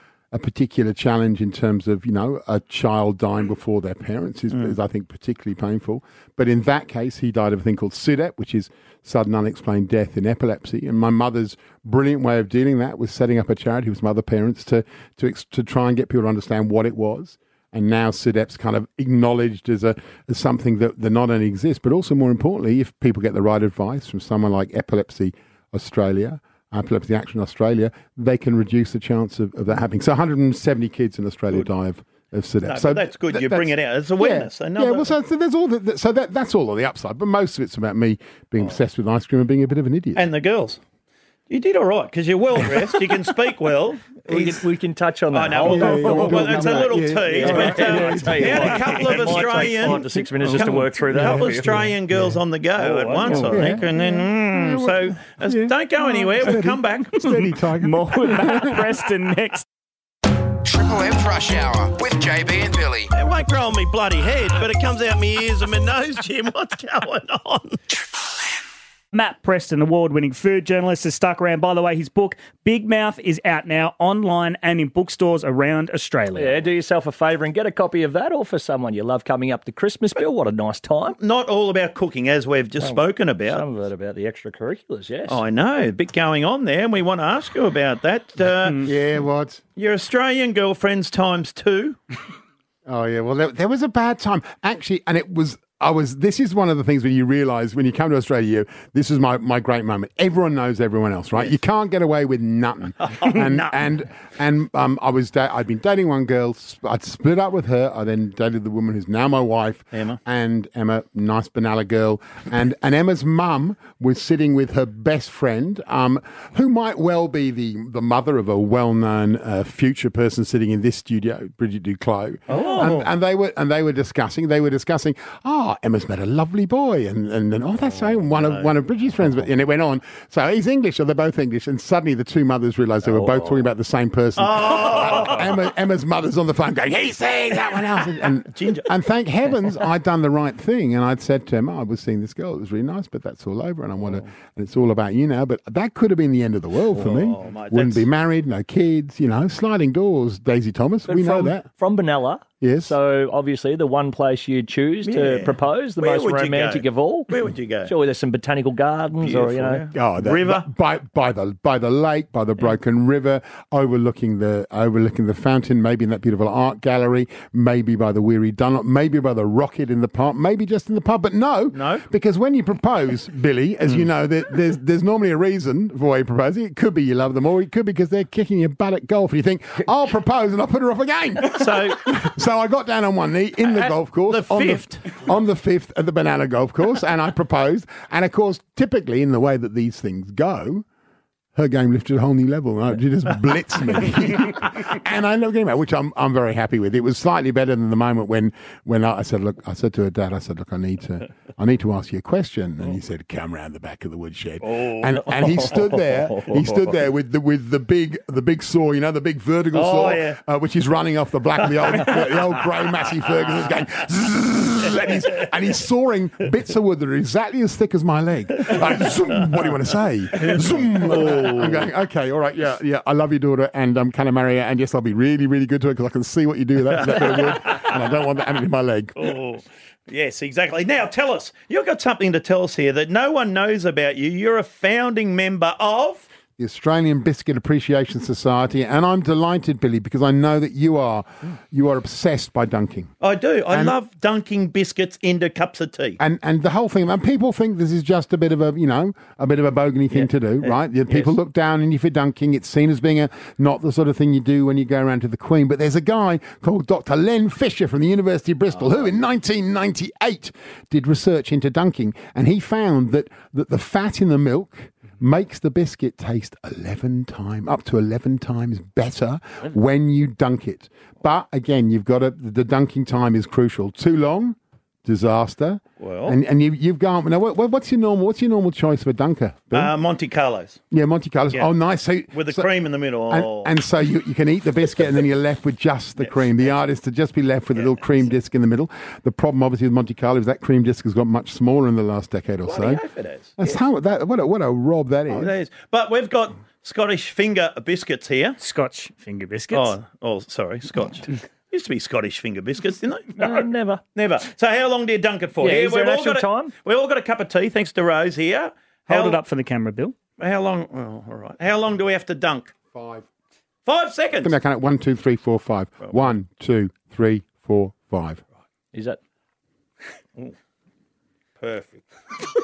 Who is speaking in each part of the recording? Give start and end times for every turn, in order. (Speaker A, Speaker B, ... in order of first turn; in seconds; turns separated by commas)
Speaker A: 0.3-40.3, Speaker B: 32.6-35.1, Speaker B: 40.1-40.8, Speaker B: 41.5-44.6, Speaker C: 44.3-51.9, Speaker B: 45.3-57.1, Speaker A: 45.6-49.4, Speaker A: 51.1-51.7, Speaker C: 52.8-53.6, Speaker A: 53.5-58.9, Speaker D: 57.2-59.6, Speaker E: 60.6-63.1, Speaker B: 63.1-67.8, Speaker D: 69.1-76.6, Speaker C: 76.3-81.2, Speaker B: 81.2-83.6, Speaker C: 82.8-85.4, Speaker B: 85.3-88.8, Speaker A: 88.8-89.6, Speaker B: 89.8-92.0, Speaker A: 92.9-151.7, Speaker B: 103.0-103.7, Speaker B: 109.9-110.2, Speaker B: 122.5-123.1, Speaker B: 128.4-128.7, Speaker C: 133.1-133.6, Speaker B: 134.4-135.5, Speaker B: 138.5-138.9, Speaker B: 146.9-148.1, Speaker C: 151.1-157.3, Speaker A: 152.6-152.9, Speaker B: 155.1-157.9, Speaker C: 157.9-159.8, Speaker B: 159.2-160.7, Speaker A: 159.9-190.8, Speaker B: 171.7-172.0, Speaker B: 181.5-182.0, Speaker B: 183.7-185.2, Speaker A: 191.6-229.3, Speaker B: 204.6-205.4, Speaker C: 205.6-206.5, Speaker B: 209.7-210.4, Speaker B: 220.4-221.9, Speaker B: 227.0-227.9, Speaker B: 229.2-236.3, Speaker A: 236.6-243.1, Speaker B: 243.2-246.2, Speaker A: 243.7-243.9, Speaker A: 246.2-279.9, Speaker B: 250.1-251.3, Speaker B: 276.0-276.4, Speaker B: 279.7-280.8, Speaker A: 280.9-282.7, Speaker B: 282.3-283.7, Speaker A: 283.3-293.0, Speaker B: 286.2-286.7, Speaker B: 287.7-288.3, Speaker B: 292.6-293.8, Speaker A: 293.6-295.5, Speaker B: 295.3-298.6, Speaker D: 298.6-299.9, Speaker B: 299.7-303.4, Speaker C: 303.4-304.0, Speaker B: 304.1-309.4, Speaker C: 305.6-306.7, Speaker D: 309.1-310.1, Speaker B: 310.4-312.7, Speaker A: 312.9-313.2, Speaker B: 313.9-314.5, Speaker A: 314.4-318.4, Speaker C: 318.9-319.2, Speaker B: 321.6-322.0